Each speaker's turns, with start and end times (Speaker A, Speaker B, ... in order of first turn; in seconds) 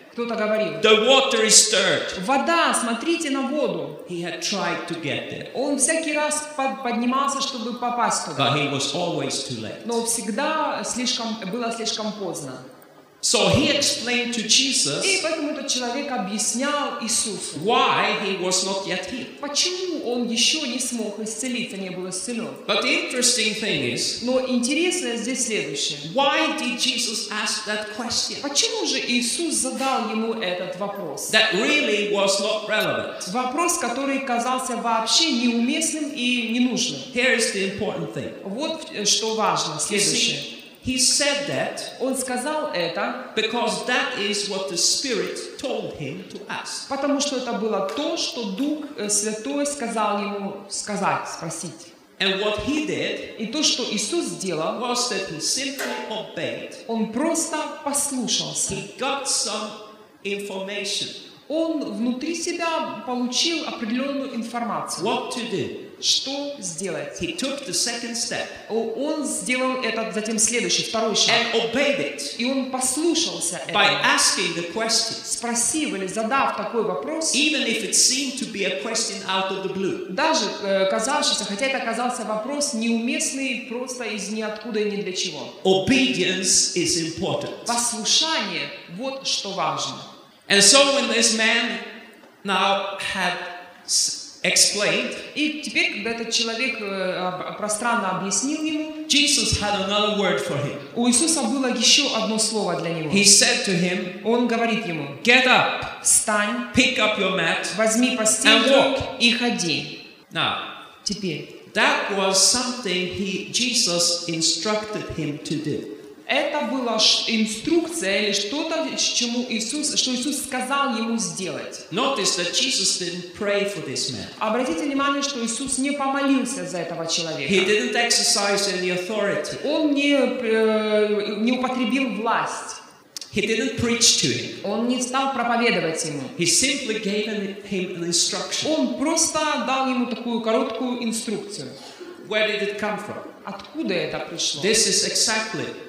Speaker A: 0.1-0.8, 2.1-4.0, 5.5-8.5, 9.8-12.6, 15.0-17.7, 19.4-22.6, 24.2-26.1, 28.4-31.4, 33.2-37.1, 38.4-40.5, 42.0-43.2, 46.9-51.9, 53.4-54.8, 56.9-58.8, 61.5-65.1, 66.0-67.2, 68.7-71.4, 72.3-74.1, 75.2-77.4, 80.1-85.5, 87.7-90.1, 95.3-99.0, 100.9-103.3, 104.2-105.2, 106.0-106.7, 107.7-109.9, 111.0-111.5, 116.3-121.8, 124.4-127.7, 129.6-132.8, 134.6-136.3, 138.6-141.8, 143.4-144.7
Speaker B: 0.8-2.1, 4.0-5.5, 8.3-10.0, 13.2-15.2, 17.5-19.3, 22.6-24.2, 26.0-28.4, 31.3-33.3, 37.1-38.4, 39.8-41.9, 43.3-46.9, 52.2-53.3, 54.7-56.8, 58.7-61.1, 65.0-65.8, 67.2-68.6, 71.2-72.3, 73.7-75.2, 77.3-80.0, 85.6-87.8, 90.5-91.8, 92.4-95.2, 99.1-100.8, 103.1-104.1, 105.2-105.9, 106.7-107.8, 108.4-109.0, 110.3-110.6, 111.7-115.9, 121.9-124.3, 127.5-129.6, 133.3-134.6, 136.3-138.7, 142.2-143.2, 144.6-145.7